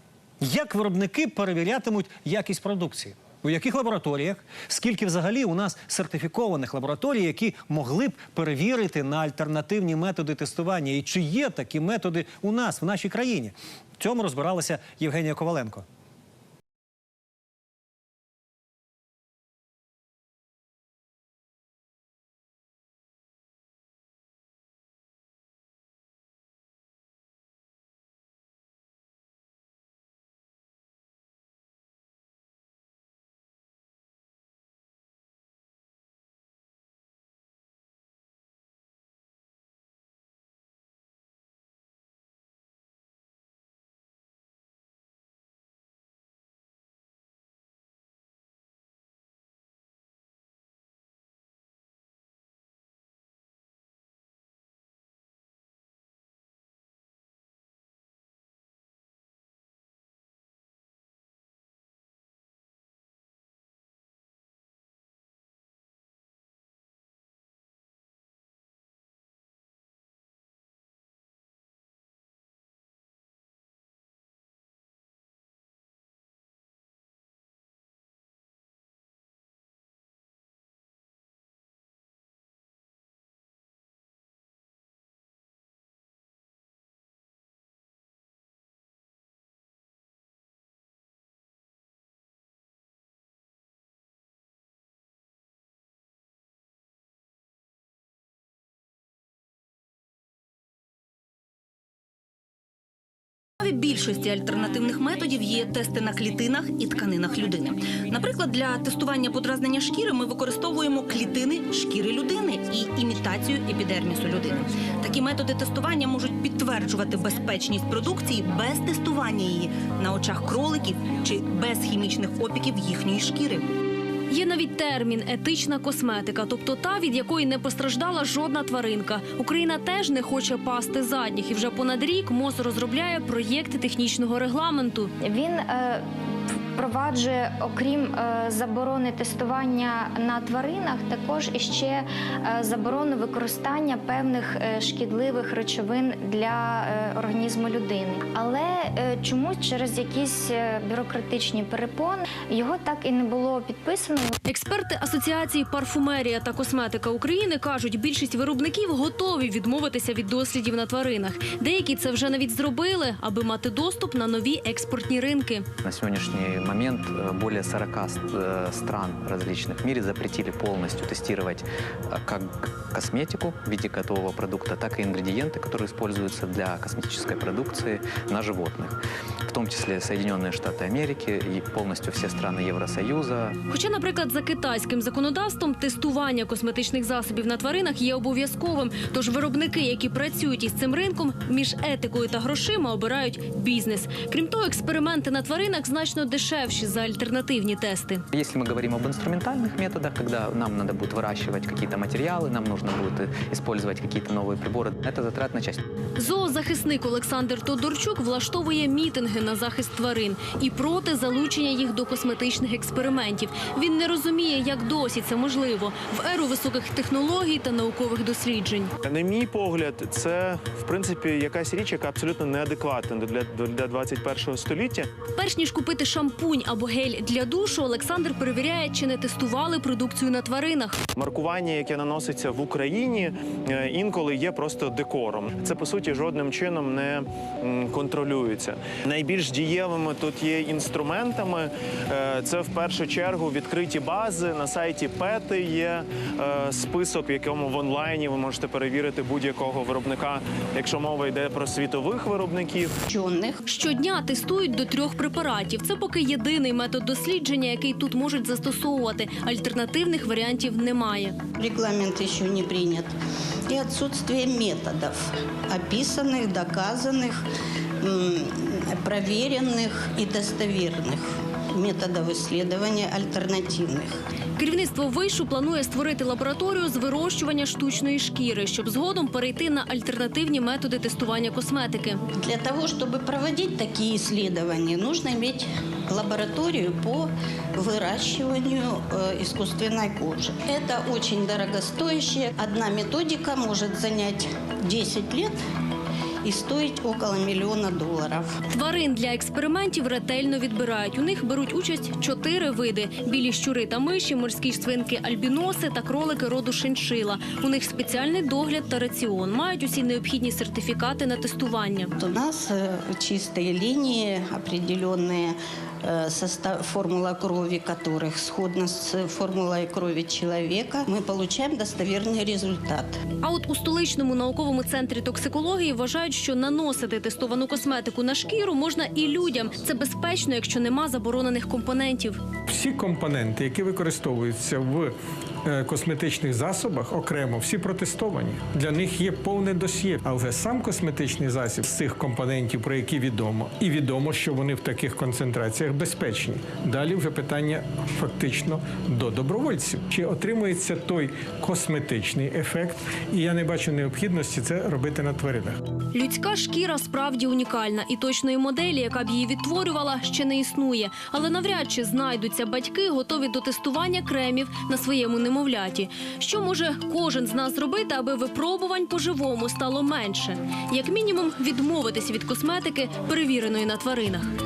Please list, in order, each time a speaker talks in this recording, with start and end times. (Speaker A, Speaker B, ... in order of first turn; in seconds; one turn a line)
Speaker A: 0.4-15.8
Speaker B: 103.6-123.7
Speaker C: 124.3-135.1
Speaker D: 135.2-136.0
Speaker D: 136.8-154.4
Speaker C: 154.5-165.7
Speaker E: 165.8-183.6
Speaker C: 183.7-198.2
Speaker E: 198.3-205.8
Speaker C: 206.2-218.9
Speaker F: 219.0-225.1
Speaker C: 225.4-231.0
Speaker F: 231.2-252.9
Speaker G: 253.1-253.6
Speaker C: 253.7-261.4
Speaker G: 261.6-263.1
Speaker G: 263.7-267.4
Speaker G: 268.0-274.2
Speaker C: 274.6-282.2
Speaker G: 282.4-295.6
Speaker G: 296.4-298.6
Speaker C: 298.7-312.1
Speaker G: 312.2-323.2
Speaker C: 323.4-332.4
Speaker H: 332.7-335.1
Speaker H: 335.6-355.8
Speaker C: 356.1-374.5